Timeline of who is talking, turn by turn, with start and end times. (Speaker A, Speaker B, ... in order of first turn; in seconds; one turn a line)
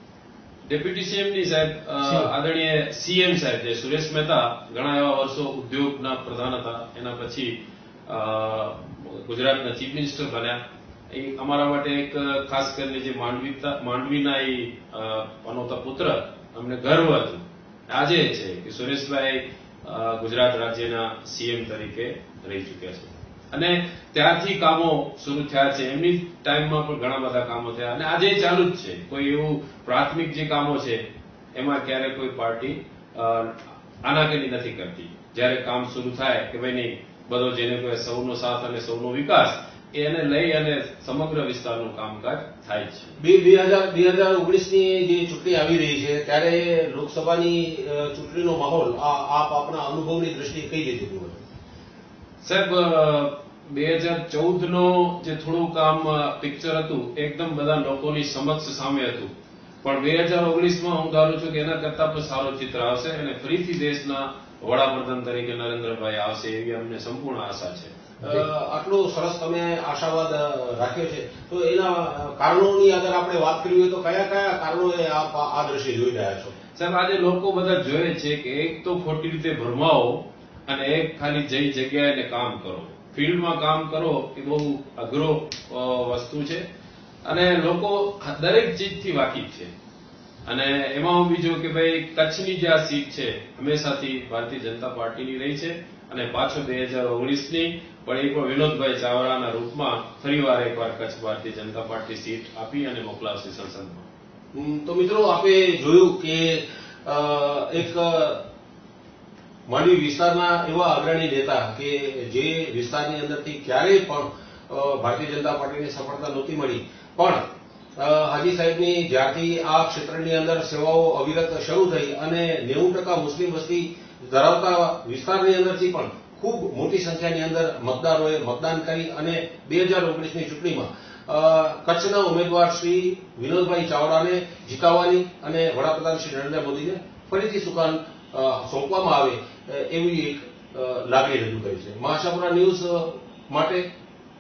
Speaker A: 0.7-10.6
Speaker A: 11.1-31.0
Speaker A: 31.6-43.2
Speaker B: 43.2-51.4
Speaker A: 52.4-59.3
Speaker A: 59.8-68.2
Speaker B: 68.2-76.5
Speaker A: 76.8-86.7
Speaker A: 87.2-89.7
Speaker A: 90.5-104.1
Speaker B: 104.5-108.4
Speaker B: 109.7-117.4
Speaker B: 118.0-143.9